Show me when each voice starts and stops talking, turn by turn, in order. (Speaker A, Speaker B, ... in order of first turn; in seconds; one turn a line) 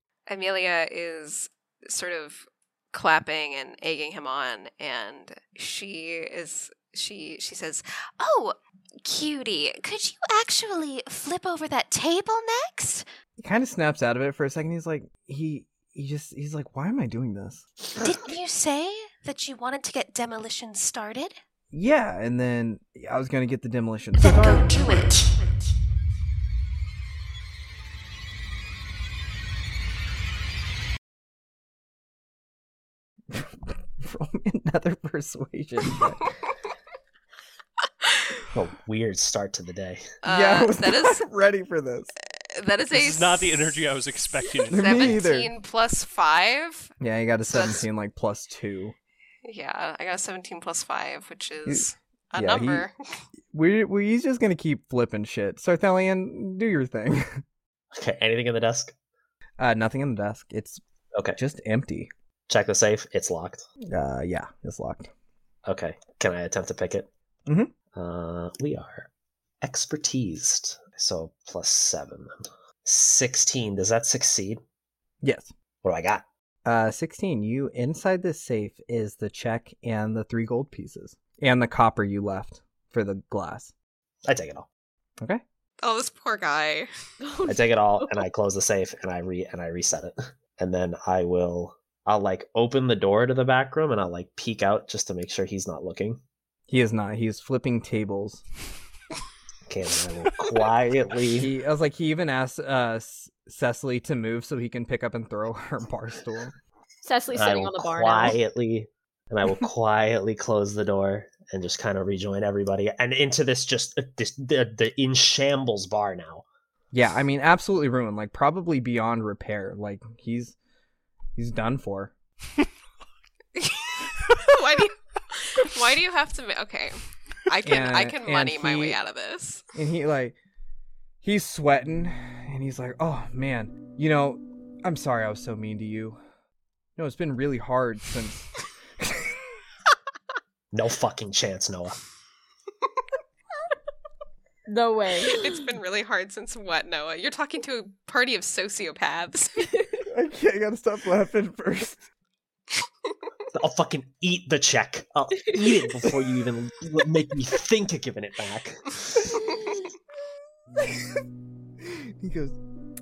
Speaker A: 0.3-7.8
Speaker B: 8.2-13.1
Speaker C: 13.4-17.7
Speaker B: 18.0-21.4
Speaker C: 21.7-24.9
Speaker B: 24.2-25.4
Speaker C: 33.3-36.3
Speaker A: 38.0-38.4
Speaker D: 38.5-40.1
Speaker A: 40.2-41.2
Speaker C: 40.2-42.1
Speaker A: 42.5-43.8
Speaker E: 42.9-45.2
Speaker A: 44.6-46.9
Speaker C: 44.7-45.5
Speaker C: 47.0-49.0
Speaker A: 47.5-47.8
Speaker A: 49.4-53.2
Speaker C: 51.7-52.9
Speaker C: 53.5-57.4
Speaker D: 57.9-58.9
Speaker C: 59.6-60.8
Speaker C: 61.4-62.1
Speaker D: 62.5-63.7
Speaker C: 63.9-65.1
Speaker D: 65.7-67.1
Speaker C: 67.5-67.7
Speaker D: 67.9-69.1
Speaker D: 69.6-74.6
Speaker C: 75.2-75.5
Speaker D: 75.8-76.2
Speaker C: 76.7-83.7
Speaker D: 84.3-84.7
Speaker A: 85.8-86.9
Speaker F: 87.2-88.2
Speaker D: 87.5-96.2
Speaker C: 96.7-98.4
Speaker D: 99.7-101.5
Speaker C: 101.3-106.5
Speaker F: 107.0-108.4
Speaker D: 107.3-116.4
Speaker C: 116.9-120.6
Speaker C: 121.3-122.1
Speaker A: 123.6-129.6
Speaker C: 127.6-129.0
Speaker C: 129.8-130.4
Speaker C: 131.2-136.2
Speaker C: 137.0-139.3
Speaker D: 140.7-142.0
Speaker F: 144.7-145.4
Speaker A: 145.3-149.5
Speaker F: 149.8-150.0
Speaker C: 150.1-152.0
Speaker D: 153.5-159.5
Speaker C: 160.8-161.2
Speaker C: 161.8-162.6